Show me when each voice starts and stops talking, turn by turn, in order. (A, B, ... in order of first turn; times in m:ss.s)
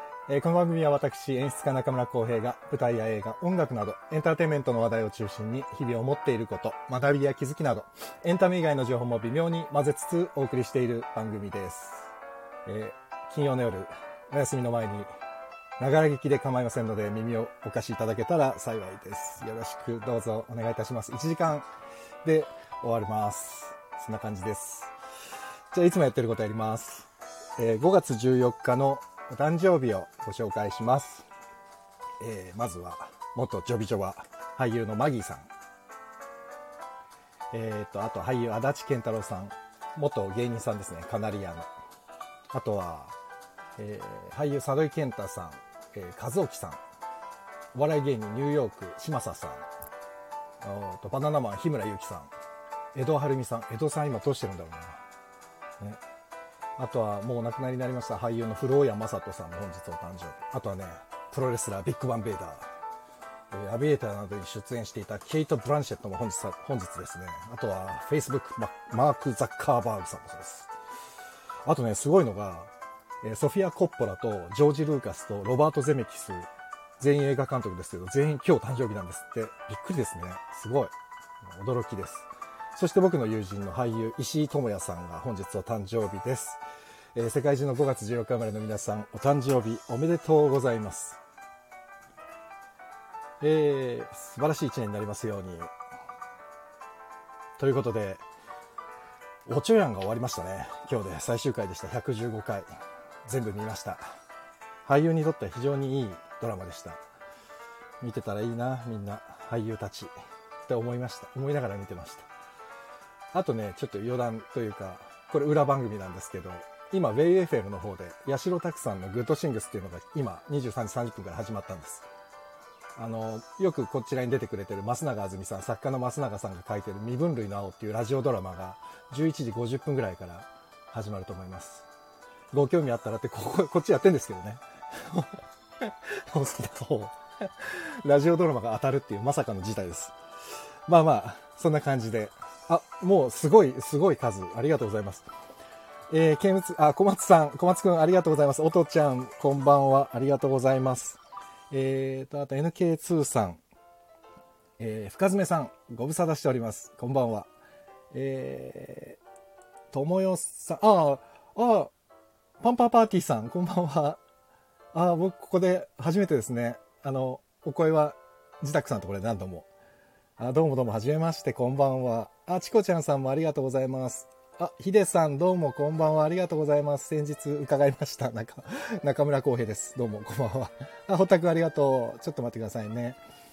0:00.3-0:12.1 A
0:12.7-0:15.1 A
0:15.8-0:21.7 A
0:22.2-0:24.9 A
0:25.7-0:31.2 A
0:32.2-0:35.4 A
0:37.5-0:41.7 A
0:42.5-0:43.2 A
0:43.8-0:46.8 A
0:47.7-0:49.7 A
0:50.6-0:52.3 A
0:52.9-0:55.0 A
0:56.8-1:02.7 A
1:03.5-1:10.7 A
1:11.6-1:12.7 A
1:13.2-1:16.5 A
1:17.0-1:26.6 A
1:27.2-1:31.2 A
1:33.4-1:35.7 A
1:37.6-1:38.2 A
1:39.4-1:42.7 A
1:43.3-1:44.0 A
1:44.9-1:47.0 A
1:48.0-1:50.1 A
1:50.7-1:52.3 A
1:53.3-2:02.0 A
2:03.0-2:11.8 A
2:12.5-2:20.1 A
2:20.9-2:25.3 A
2:26.1-2:31.2 A
2:31.7-2:33.6 A
2:34.8-2:37.5 A
2:38.1-2:39.2 A
2:39.9-2:41.9 A
2:42.6-2:44.2 A
2:44.9-2:49.7 A
2:50.4-3:03.2 A